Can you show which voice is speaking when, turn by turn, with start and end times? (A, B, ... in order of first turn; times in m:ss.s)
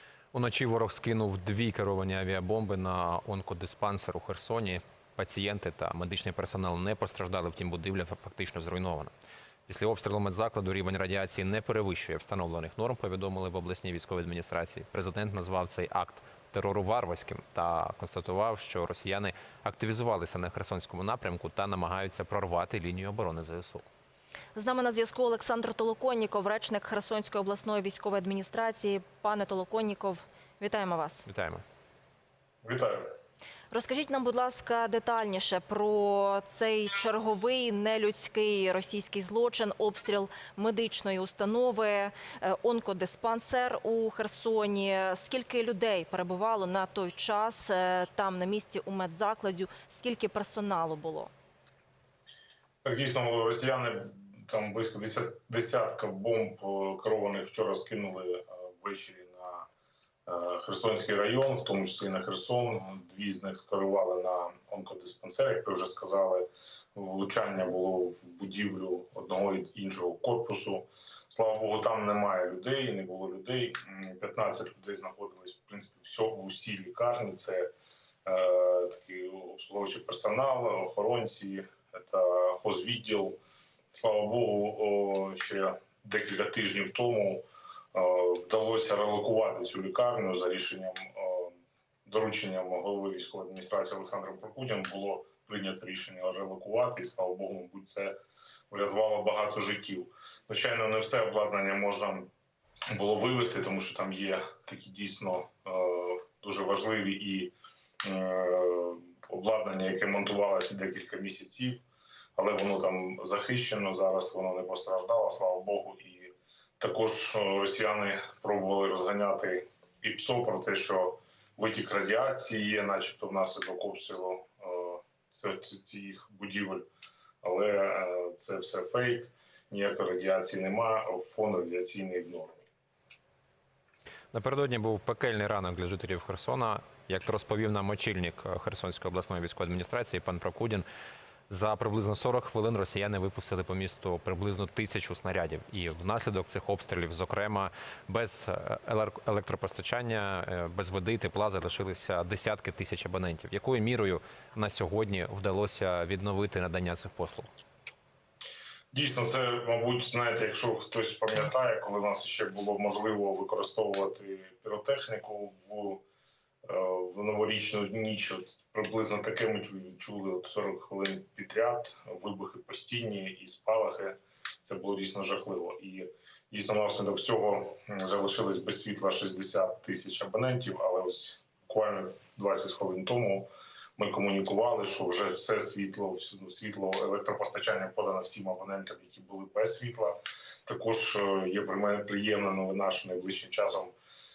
0:00.3-0:09.1 A
0:09.7-0:23.8 A
0:24.5-0:31.2 B
0:31.3-0:31.6 A
0:32.6-0:33.1 C
0:33.7-0:51.3 B
0:52.8-0:59.7 C
1:00.2-1:17.7 C
1:18.2-1:23.4 C
1:23.9-1:38.2 C
1:38.7-1:42.3 C
1:42.9-1:51.8 C
1:52.4-2:06.8 C
2:07.4-2:12.7 C
2:14.3-2:20.8 A
2:21.5-2:37.5 A
2:38.9-2:46.0 C
2:46.6-3:13.9 C